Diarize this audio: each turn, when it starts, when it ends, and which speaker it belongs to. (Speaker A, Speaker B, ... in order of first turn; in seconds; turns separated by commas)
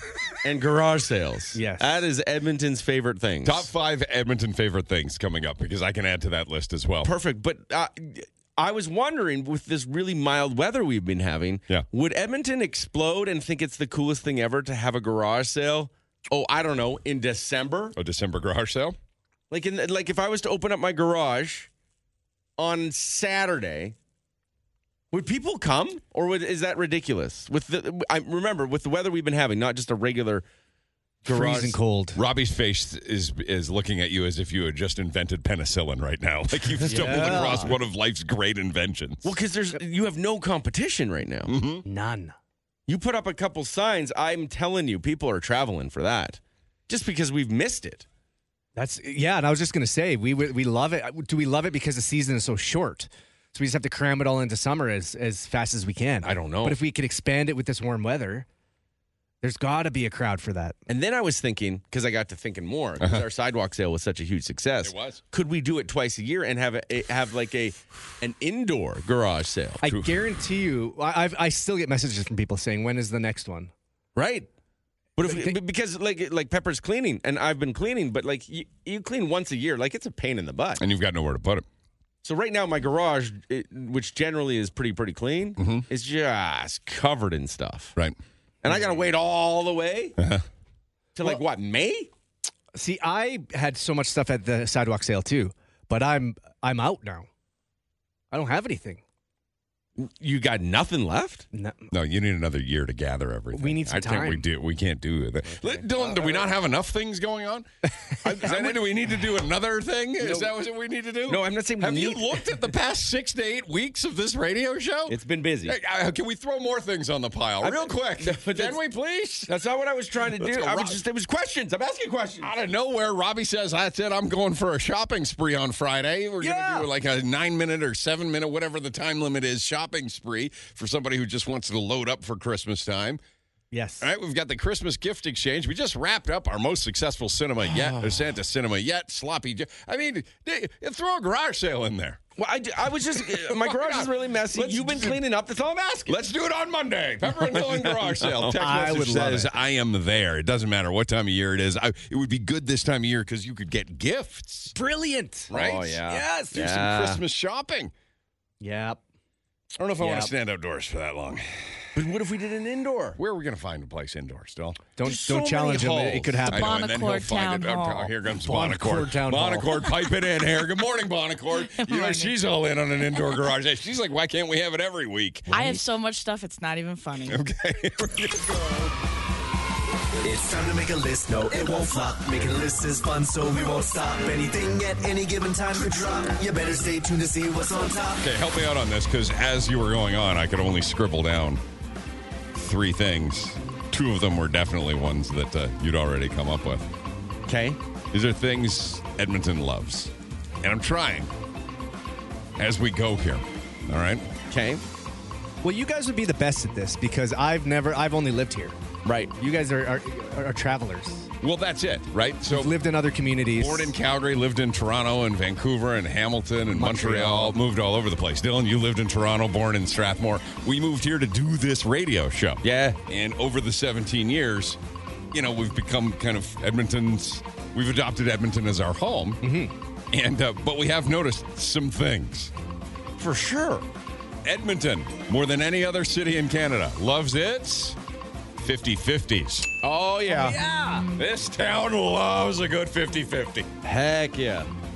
Speaker A: 0.4-3.7, Speaker B: 1.6-2.1, Speaker C: 3.4-7.1, Speaker A: 7.0-18.0, Speaker C: 17.9-19.0, Speaker A: 19.5-21.7, Speaker A: 22.6-23.9, Speaker A: 25.1-30.4, Speaker A: 31.2-31.8, Speaker B: 31.3-32.2, Speaker C: 32.1-39.3, Speaker A: 36.9-37.7, Speaker B: 36.9-37.7, Speaker A: 39.2-41.5, Speaker C: 41.5-41.9, Speaker B: 41.8-42.4, Speaker A: 42.9-48.1, Speaker B: 48.8-58.5, Speaker A: 56.2-56.8, Speaker B: 59.4-60.8, Speaker A: 60.9-69.8, Speaker C: 64.8-65.2, Speaker B: 69.8-73.7, Speaker C: 69.8-70.2, Speaker A: 74.2-74.5, Speaker A: 75.2-80.8, Speaker B: 75.3-75.6, Speaker C: 80.8-81.7, Speaker A: 82.2-88.0, Speaker C: 85.6-85.9, Speaker A: 88.6-90.2, Speaker C: 90.2-90.5, Speaker A: 91.2-92.1, Speaker B: 92.8-97.3, Speaker B: 98.3-99.0, Speaker A: 100.0-101.5, Speaker B: 101.5-101.9, Speaker C: 101.9-119.5, Speaker B: 103.5-104.5, Speaker A: 105.5-106.5, Speaker A: 110.2-110.5, Speaker A: 111.3-112.5, Speaker A: 115.1-115.8, Speaker A: 117.6-118.8, Speaker A: 119.5-122.5, Speaker C: 120.4-121.0, Speaker C: 122.4-133.2, Speaker B: 126.4-126.9, Speaker B: 133.7-134.1, Speaker C: 134.0-142.2, Speaker A: 142.4-146.2, Speaker C: 143.2-145.2, Speaker C: 146.1-154.8, Speaker A: 147.5-149.0, Speaker B: 148.5-149.5, Speaker B: 154.7-155.5, Speaker C: 155.5-157.9, Speaker A: 155.5-157.2, Speaker B: 158.6-159.0, Speaker C: 159.8-161.8, Speaker B: 160.0-160.3, Speaker A: 161.9-163.2, Speaker C: 163.2-164.8, Speaker B: 165.0-166.8, Speaker A: 165.0-166.4, Speaker D: 166.5-168.1, Speaker C: 166.5-175.8, Speaker B: 168.4-169.9, Speaker D: 171.8-172.3, Speaker D: 175.5-177.4, Speaker C: 177.3-178.9, Speaker E: 180.2-188.3, Speaker C: 188.2-191.6, Speaker C: 192.6-196.9, Speaker A: 197.5-197.8, Speaker C: 198.1-201.3, Speaker C: 202.6-204.3, Speaker A: 204.5-204.8, Speaker B: 205.6-208.8, Speaker A: 209.1-209.3, Speaker B: 209.4-211.3, Speaker C: 211.4-212.8, Speaker B: 212.5-213.9, Speaker C: 213.5-224.8, Speaker B: 216.7-217.6, Speaker A: 222.6-223.0, Speaker C: 225.3-229.4, Speaker B: 229.4-229.7, Speaker C: 230.1-232.5, Speaker A: 233.2-233.8, Speaker C: 234.4-238.0, Speaker C: 238.6-239.8, Speaker A: 239.8-240.6, Speaker C: 241.1-243.7, Speaker A: 243.8-244.7